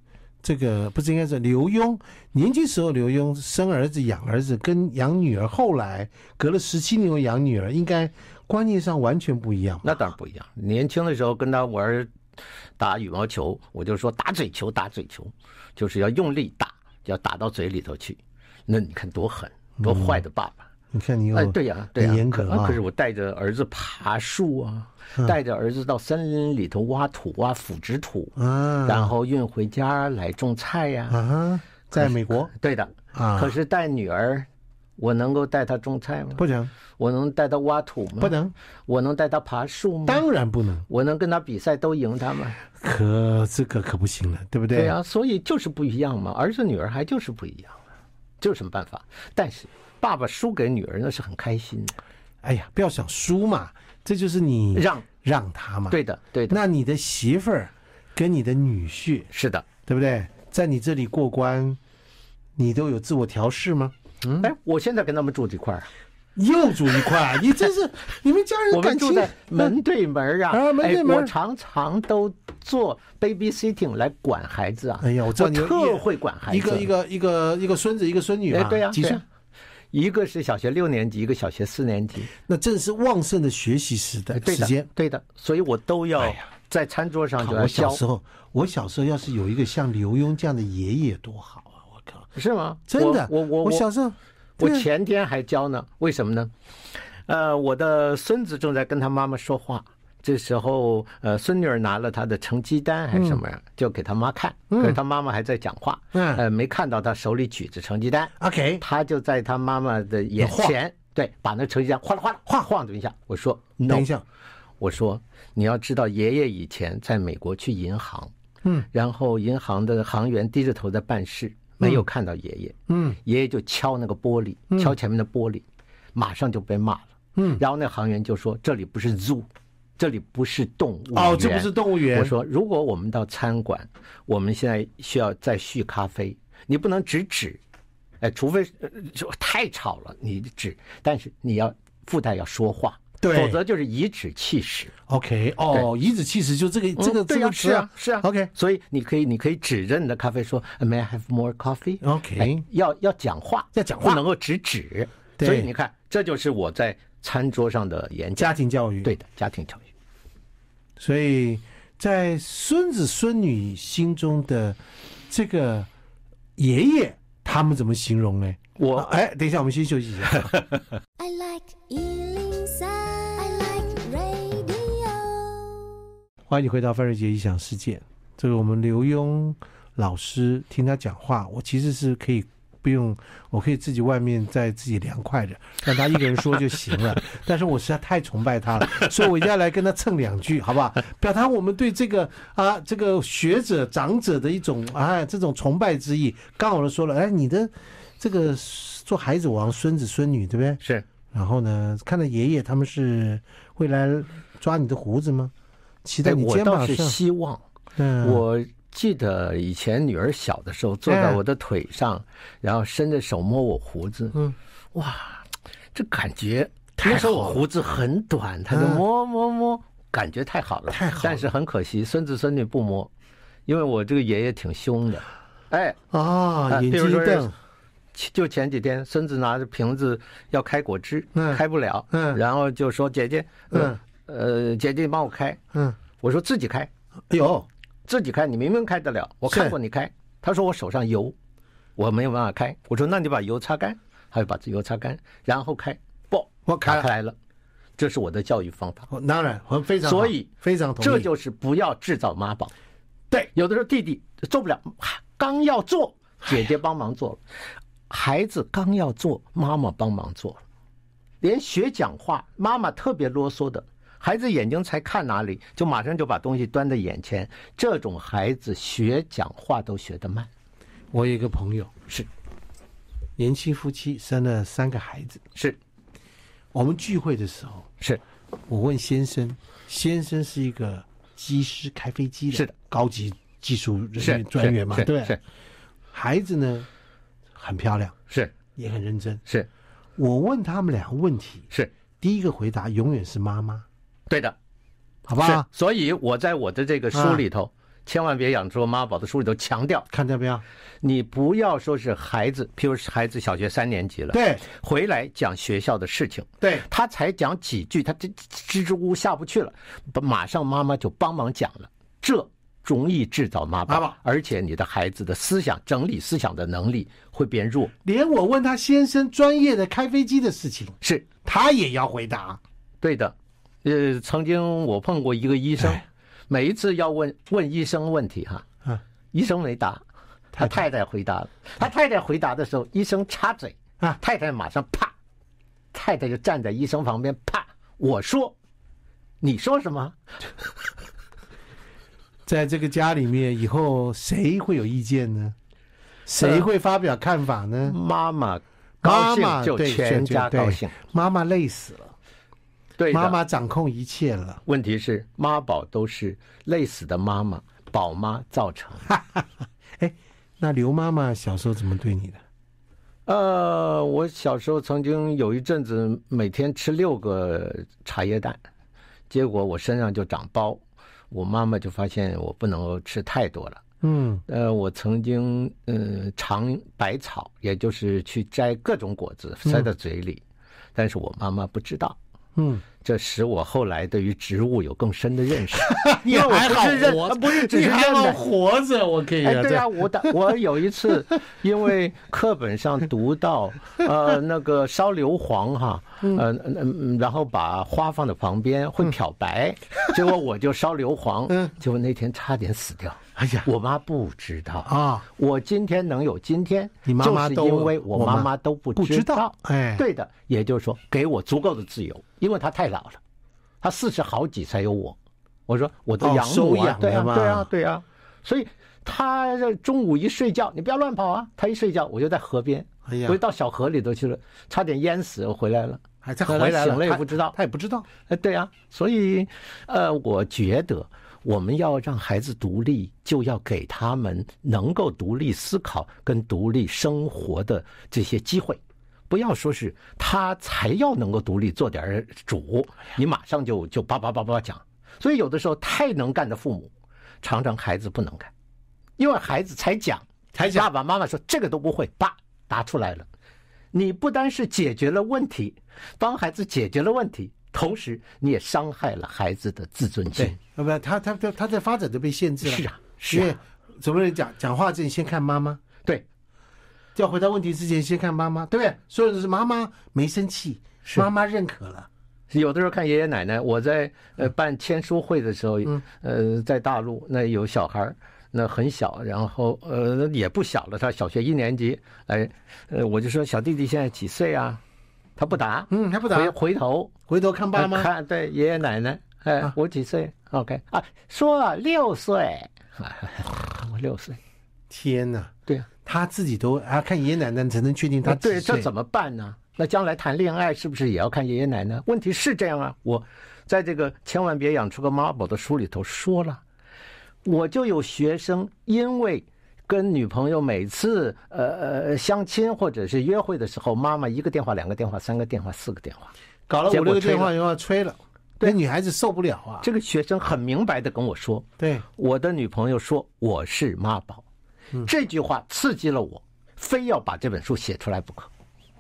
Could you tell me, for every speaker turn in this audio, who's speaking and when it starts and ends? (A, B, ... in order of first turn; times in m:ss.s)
0:00.4-0:10.0 A
0:09.8-0:12.1 B
0:12.8-0:20.7 B
0:19.8-0:20.2 A
0:20.9-0:22.8 A
0:21.3-0:31.2 B
0:28.4-0:29.1 A
0:31.1-0:32.5 A
0:32.0-0:36.4 B
0:33.1-0:33.5 A
0:36.4-0:36.7 A
0:37.0-0:38.4 B
0:38.2-0:38.5 A
0:38.9-0:40.2 B
0:40.1-0:40.9 A
0:40.9-0:42.6 B
0:42.8-0:45.0 A
0:44.7-0:47.8 B
0:48.4-0:52.0 B
0:52.4-0:56.0 A
0:54.8-0:55.1 B
0:55.9-0:56.6 B
0:56.5-0:59.3 A
0:59.3-0:59.7 B
0:59.9-1:01.8 A
1:02.6-1:04.5 A
1:04.4-1:05.9 B
1:06.4-1:09.7 A
1:08.7-1:16.9 B
1:10.5-1:11.3 A
1:15.0-1:19.2 A
1:18.5-1:19.2 B
1:19.9-1:22.3 B
1:22.5-1:24.9 A
1:24.3-1:28.0 B
1:26.2-1:26.4 A
1:27.4-1:32.3 A
1:32.4-1:33.9 B
1:32.9-1:34.9 A
1:34.6-1:36.5 B
1:37.3-1:54.1 B
1:43.1-1:43.4 A
1:44.7-1:45.0 A
1:46.1-1:46.4 A
1:48.4-1:48.8 A
1:50.4-1:50.8 A
1:53.9-1:54.2 A
1:54.8-1:58.3 B
1:58.9-2:09.5 B
2:02.9-2:03.2 A
2:07.4-2:07.6 A
2:10.0-2:17.6 B
2:11.1-2:12.3 A
2:18.2-2:24.9 B
2:23.2-2:23.6 A
2:25.1-2:28.5 A
2:27.0-2:39.9 B
2:32.0-2:32.6 A
2:33.7-2:34.2 A
2:35.4-2:35.7 A
2:38.4-2:39.1 A
2:41.0-2:45.9 A
2:46.6-2:50.5 A
2:48.8-2:49.1 B
2:51.2-2:56.0 C
2:56.5-3:20.8 A
3:20.8-3:21.1 B
3:21.3-3:25.5 A
3:26.0-3:27.2 A
3:26.2-3:27.6 B
3:28.0-3:28.4 A
3:28.2-3:34.4 B
3:31.1-3:31.4 A
3:35.0-3:43.1 B
3:37.0-3:37.6 A
3:38.7-3:39.0 A
3:40.9-3:41.5 A
3:43.7-3:46.0 B
3:46.1-3:47.5 A
3:46.7-3:47.5 B
3:48.2-3:55.6 B
3:51.4-3:52.4 A
3:53.7-3:54.0 A
3:56.2-3:56.9 B
3:57.3-3:57.7 A
3:58.1-4:01.4 B
3:59.5-3:59.8 A
4:02.0-4:07.4 B
4:06.7-4:07.1 A
4:08.0-4:09.1 B
4:09.1-4:11.3 A
4:10.0-4:10.5 B
4:11.0-4:12.7 B
4:13.5-4:17.4 B
4:18.1-4:20.6 B
4:21.4-4:30.5 B
4:31.1-4:31.9 A
4:33.4-4:35.4 A
4:36.7-4:37.9 A
4:38.7-4:45.4 A
4:44.2-4:45.4 B
4:46.1-4:46.9 A
4:47.6-4:48.2 A
4:48.3-4:48.6 B
4:48.8-4:49.4 A
4:50.2-4:51.7 A
4:52.2-4:53.9 A
4:54.3-4:54.6 B
4:55.3-4:55.7 A
4:55.3-5:00.1 B
4:57.1-4:57.4 A
5:00.1-5:00.6 A
5:01.0-5:17.9 B
5:04.3-5:04.6 A
5:06.6-5:06.9 A
5:13.9-5:14.2 A
5:18.0-5:22.6 A
5:21.0-5:21.3 B
5:23.0-5:28.7 B
5:29.3-5:30.0 B
5:30.5-5:35.1 B
5:35.9-5:38.6 B
5:39.4-5:40.2 B
5:42.5-5:45.6 A
5:46.3-5:48.0 A
5:46.4-5:46.6 B
5:47.9-5:51.0 B
5:49.0-5:52.1 A
5:53.0-5:53.4 B
5:53.1-5:54.6 A
5:54.7-5:59.1 B
5:59.1-5:59.5 A
6:00.0-6:02.4 A
6:03.3-6:08.6 B
6:09.3-6:13.8 B
6:14.0-6:14.4 A
6:14.5-6:20.4 B
6:21.0-6:22.2 B
6:22.6-6:22.8 A
6:23.0-6:28.4 B
6:25.8-6:30.6 A
6:29.4-6:53.2 B
6:43.4-6:43.7 A
6:44.9-6:45.2 A
6:47.0-6:50.0 A
6:53.8-6:55.2 B
6:55.7-7:07.6 B
6:56.2-6:57.7 A
7:03.1-7:03.4 A
7:06.2-7:08.1 A
7:08.3-7:26.9 B
7:27.4-7:28.5 B
7:29.2-7:33.3 B
7:30.6-7:30.9 A
7:33.9-7:40.6 B
7:40.4-7:45.8 A
7:42.6-7:43.6 B
7:47.2-7:52.1 A
7:52.5-8:04.8 B
8:05.4-8:07.1 B
8:05.9-8:06.6 A
8:07.3-8:08.1 A
8:07.7-8:14.4 B
8:14.9-8:15.5 A
8:16.0-8:18.9 A
8:18.2-8:26.6 B
8:27.4-8:36.3 B
8:36.7-8:39.9 A
8:36.9-8:37.5 B
8:39.8-8:44.4 B
8:41.8-8:42.0 A
8:45.0-8:48.5 B